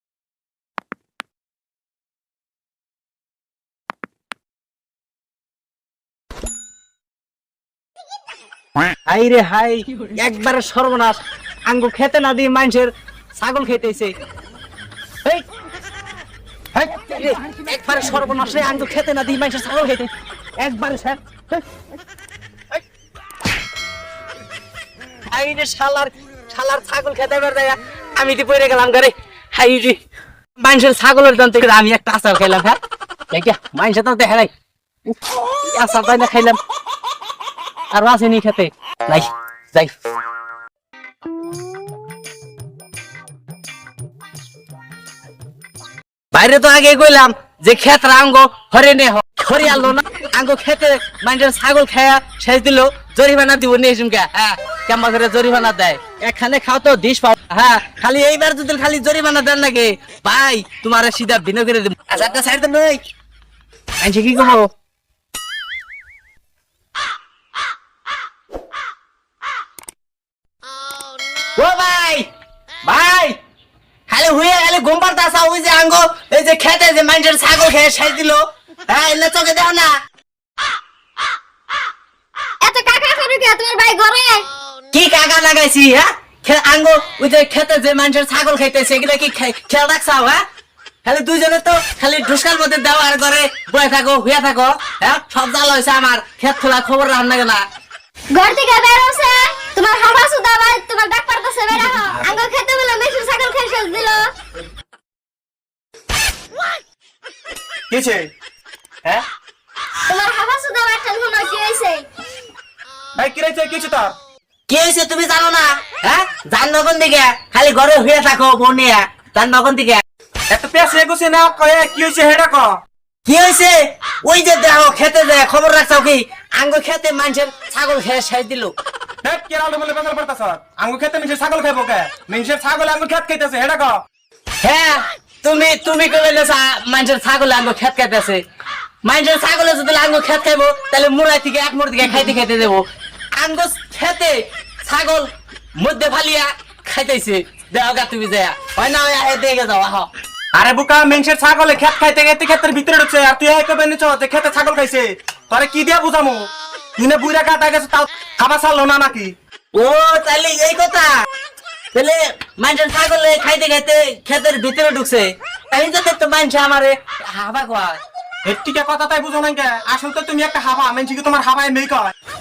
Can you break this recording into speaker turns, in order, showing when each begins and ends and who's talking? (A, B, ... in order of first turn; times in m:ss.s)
0:09.1-0:14.1 A
0:16.7-0:21.6 A
0:25.3-0:30.0 A
0:30.6-0:32.8 A
0:33.3-0:34.5 A
0:35.1-0:36.6 A
0:37.9-0:39.9 A
0:46.3-1:03.0 A
1:04.0-1:04.7 A
1:11.6-1:12.3 A
1:12.8-1:13.4 A
1:14.1-1:20.0 A
1:22.6-1:24.5 B
1:24.9-1:30.4 A
1:31.0-1:37.6 A
1:38.3-1:44.3 B
1:47.9-1:48.3 C
1:50.1-1:52.1 B
1:53.2-1:54.2 C
1:54.7-2:00.0 A
2:00.5-2:02.8 C
2:03.3-2:08.7 A
2:09.2-2:14.0 C
2:14.6-2:18.4 A
2:19.0-2:22.8 A
2:23.4-2:30.1 A
2:30.5-2:39.3 C
2:39.7-2:41.2 A
2:41.9-2:48.0 A
2:48.4-2:52.1 C